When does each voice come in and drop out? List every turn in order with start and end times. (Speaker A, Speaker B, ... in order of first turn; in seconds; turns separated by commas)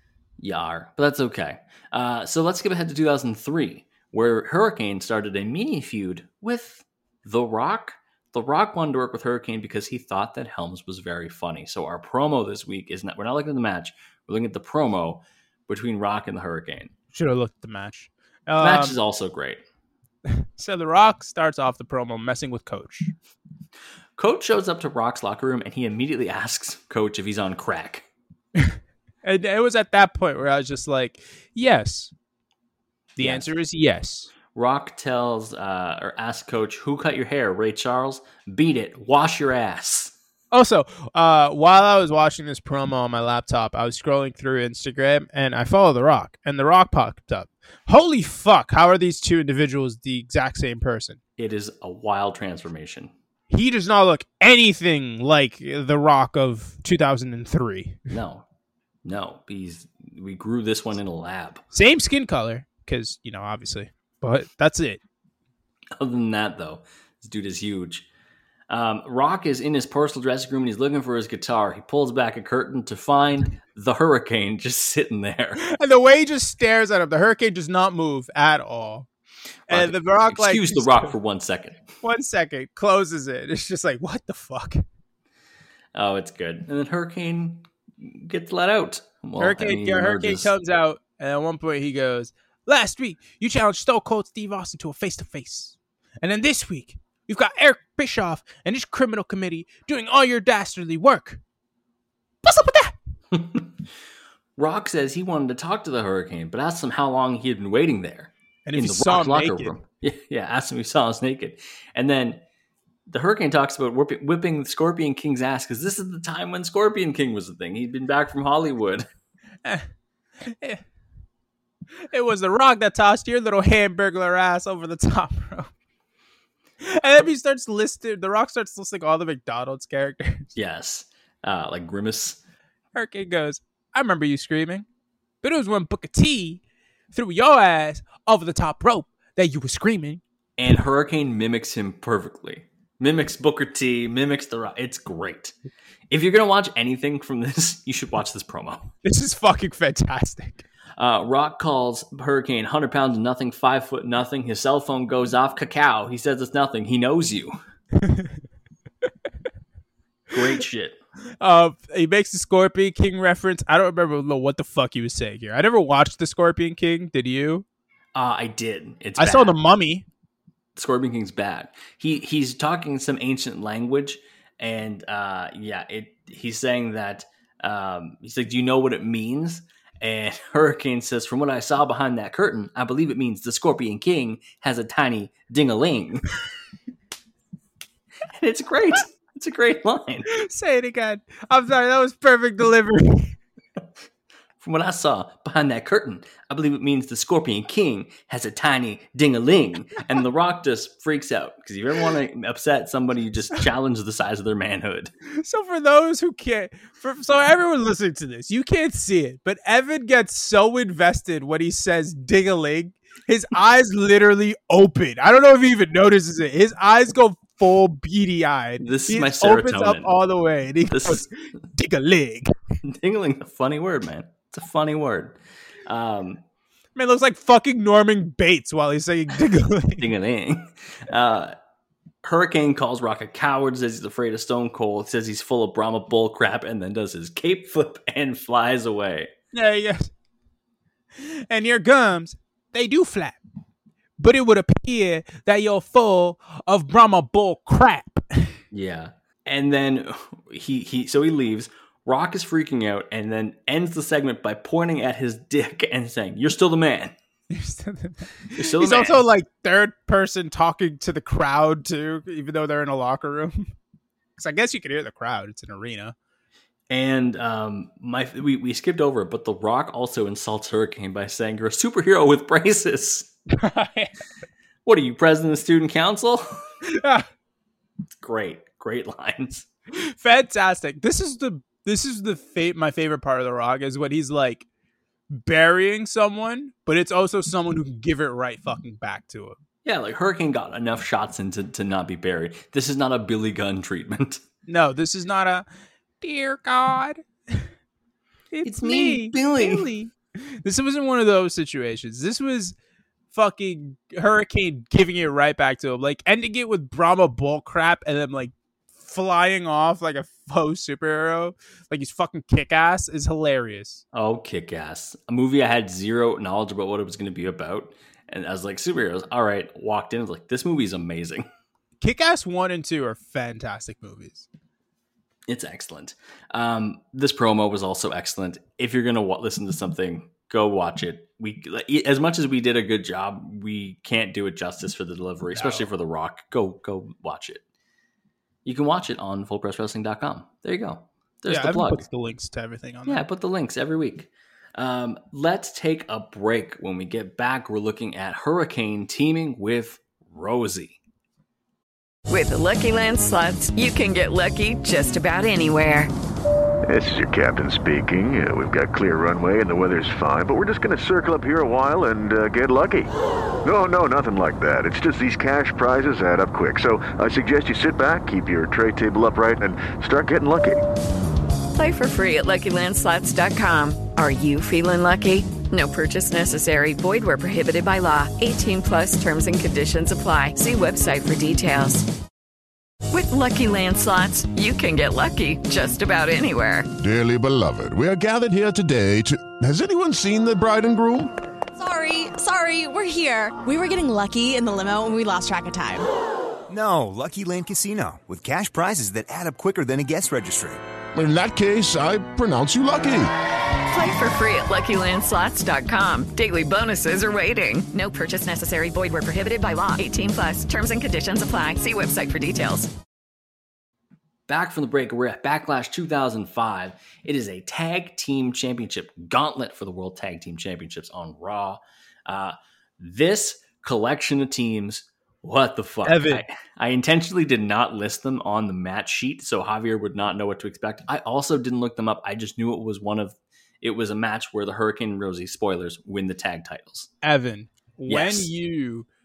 Speaker A: 0.4-16.9, Speaker B: 17.1-18.9, Speaker A: 18.6-19.6, Speaker B: 20.3-23.1, Speaker A: 24.1-28.1, Speaker B: 28.6-32.1, Speaker B: 33.2-34.3, Speaker A: 33.2-33.5, Speaker A: 34.5-40.1, Speaker B: 40.5-51.2, Speaker A: 51.4-53.1, Speaker B: 53.5-58.0, Speaker A: 58.1-58.4, Speaker A: 59.0-61.6, Speaker B: 61.7-65.0, Speaker A: 66.0-68.0, Speaker A: 68.7-75.6, Speaker B: 75.6-79.1, Speaker B: 79.7-81.1, Speaker A: 79.7-81.8, Speaker B: 82.0-84.8, Speaker A: 85.9-90.5, Speaker B: 89.4-101.4, Speaker B: 102.4-103.0, Speaker A: 103.3-103.7, Speaker A: 104.6-112.4, Speaker B: 108.7-109.7, Speaker A: 113.1-119.1, Speaker B: 119.6-119.9, Speaker B: 120.4-120.8, Speaker B: 122.1-125.7, Speaker B: 126.8-130.5, Speaker A: 130.5-132.4, Speaker B: 132.9-134.8, Speaker B: 135.4-136.6, Speaker B: 137.1-140.2, Speaker A: 140.6-145.5, Speaker A: 146.1-148.9, Speaker B: 149.0-150.6, Speaker A: 151.0-157.6, Speaker B: 158.0-158.3, Speaker A: 160.3-161.0, Speaker B: 161.4-167.6, Speaker A: 168.1-169.5, Speaker B: 169.2-170.1, Speaker A: 170.8-186.3, Speaker A: 188.3-190.3, Speaker B: 190.3-193.3, Speaker A: 194.6-205.1, Speaker B: 205.4-222.5, Speaker A: 218.8-220.1, Speaker A: 220.9-221.3, Speaker A: 222.8-226.4, Speaker B: 226.9-230.1, Speaker A: 230.0-231.5, Speaker A: 232.2-239.3, Speaker B: 239.5-240.1, Speaker B: 241.2-243.4, Speaker B: 244.2-248.6, Speaker A: 248.7-257.1, Speaker B: 257.5-263.7, Speaker A: 258.6-259.2, Speaker B: 264.4-266.1, Speaker A: 266.9-273.3, Speaker B: 273.6-274.1, Speaker A: 274.8-276.6, Speaker B: 276.9-277.2, Speaker A: 278.2-279.7, Speaker B: 279.9-284.6, Speaker B: 285.3-289.6, Speaker A: 289.8-294.4, Speaker B: 294.7-295.7, Speaker B: 296.2-297.7, Speaker B: 298.5-302.7, Speaker A: 298.6-299.9, Speaker B: 303.3-314.0, Speaker A: 314.1-321.5, Speaker B: 322.0-324.5, Speaker A: 325.5-337.6, Speaker B: 335.5-335.9, Speaker A: 338.6-342.0, Speaker B: 341.5-343.2, Speaker A: 343.1-351.0, Speaker C: 352.3-356.1, Speaker D: 356.9-363.1, Speaker D: 363.6-370.8, Speaker C: 371.7-382.0, Speaker C: 383.1-386.9, Speaker E: 387.0-391.3, Speaker F: 391.8-396.1, Speaker G: 396.7-400.8, Speaker E: 401.1-403.3, Speaker C: 403.9-412.9, Speaker A: 414.5-437.1, Speaker B: 426.0-426.4, Speaker B: 437.2-439.1, Speaker A: 438.1-438.5